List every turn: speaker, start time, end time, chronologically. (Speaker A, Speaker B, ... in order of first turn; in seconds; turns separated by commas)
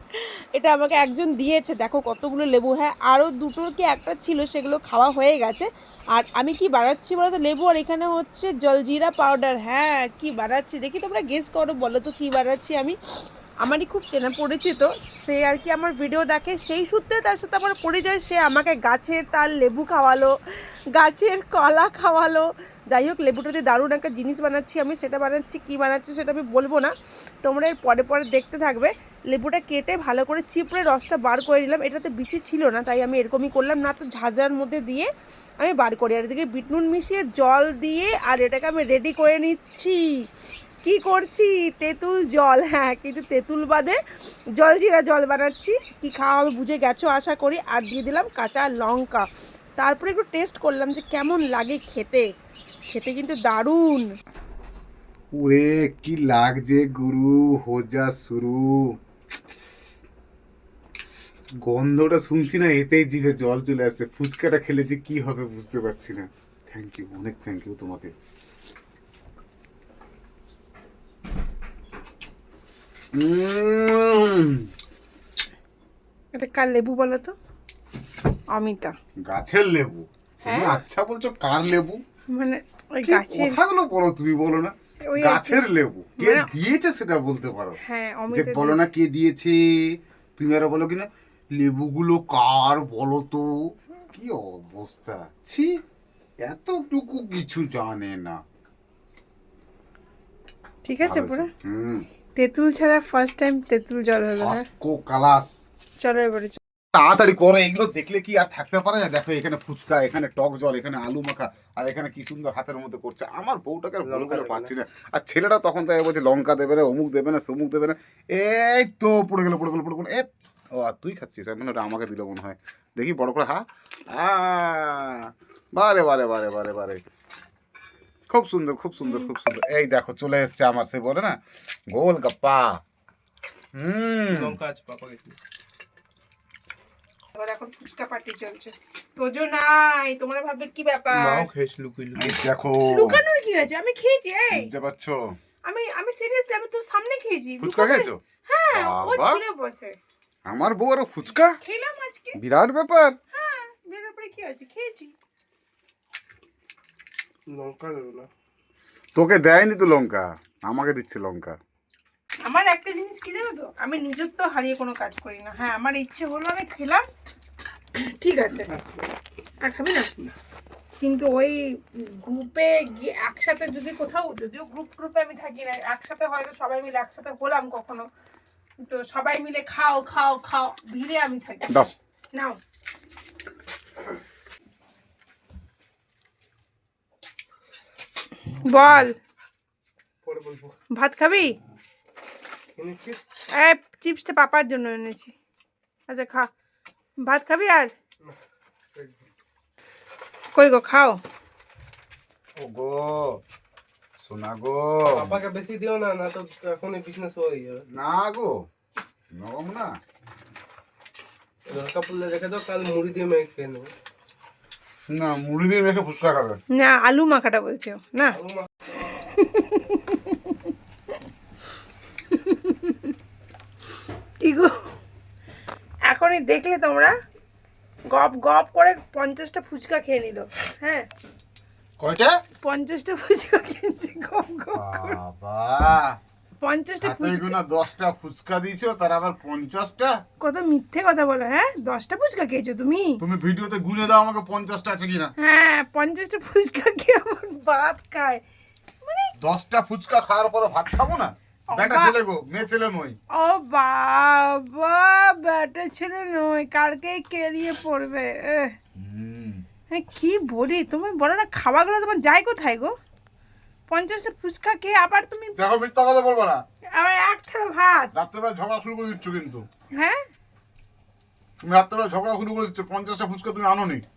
Speaker A: 0.1-12.9, Speaker A: 13.6-20.3, Speaker A: 20.9-26.9, Speaker A: 27.4-35.1, Speaker A: 35.6-40.0, Speaker A: 40.8-44.0, Speaker A: 44.5-49.2, Speaker A: 49.8-52.3, Speaker A: 52.9-54.1, Speaker B: 55.3-58.9, Speaker B: 61.6-68.1, Speaker B: 73.1-74.7, Speaker A: 76.3-77.3, Speaker A: 78.5-78.9, Speaker B: 79.2-82.0, Speaker A: 80.4-80.8, Speaker A: 82.3-83.6, Speaker B: 83.0-87.8, Speaker A: 85.0-85.6, Speaker A: 86.2-86.5, Speaker A: 87.8-88.8, Speaker B: 88.3-95.7, Speaker B: 96.4-98.4, Speaker A: 100.8-101.5, Speaker B: 101.0-102.0, Speaker A: 102.3-104.7, Speaker B: 104.4-105.5, Speaker A: 106.0-106.6, Speaker B: 106.9-127.0, Speaker C: 114.0-114.7, Speaker B: 128.3-131.3, Speaker A: 129.0-129.3, Speaker B: 131.9-132.8, Speaker B: 133.8-134.6, Speaker C: 134.3-135.4, Speaker A: 137.3-141.5, Speaker C: 141.1-142.4, Speaker B: 142.2-143.2, Speaker A: 142.8-144.7, Speaker B: 144.5-145.4, Speaker A: 145.7-149.9, Speaker B: 147.6-148.2, Speaker B: 148.7-149.4, Speaker B: 150.5-151.5, Speaker A: 151.6-152.4, Speaker B: 152.4-153.2, Speaker A: 153.3-155.1, Speaker C: 157.5-158.3, Speaker B: 159.2-161.6, Speaker A: 162.4-167.0, Speaker A: 167.9-168.7, Speaker A: 169.6-170.3, Speaker A: 171.0-178.1, Speaker A: 178.8-182.6, Speaker A: 188.4-189.2, Speaker C: 190.2-190.7, Speaker A: 190.9-191.6, Speaker C: 192.8-193.2, Speaker A: 193.5-195.3, Speaker A: 196.1-196.5, Speaker A: 197.2-197.9, Speaker C: 198.9-199.2, Speaker A: 200.5-201.2, Speaker B: 202.6-203.4, Speaker B: 204.2-205.4, Speaker C: 205.1-207.8, Speaker B: 207.9-208.5, Speaker B: 209.3-209.9, Speaker C: 211.7-213.9, Speaker B: 215.1-216.6, Speaker A: 216.7-218.4, Speaker C: 218.3-218.7, Speaker A: 218.9-220.6, Speaker A: 222.3-223.1, Speaker A: 224.4-224.8, Speaker A: 226.1-227.1, Speaker A: 228.1-231.1, Speaker B: 232.0-232.3, Speaker A: 232.6-235.2, Speaker B: 234.7-236.2, Speaker A: 236.6-237.6, Speaker B: 237.0-240.2, Speaker A: 240.4-243.2, Speaker B: 243.2-245.3, Speaker A: 245.4-248.4, Speaker A: 249.0-249.3, Speaker B: 249.4-253.2, Speaker A: 251.7-252.2, Speaker A: 253.4-258.7, Speaker B: 258.9-259.6, Speaker A: 259.9-262.9, Speaker A: 263.9-265.6, Speaker B: 265.6-266.6, Speaker A: 266.9-268.1, Speaker B: 268.1-269.6, Speaker A: 269.9-270.2, Speaker B: 271.6-274.0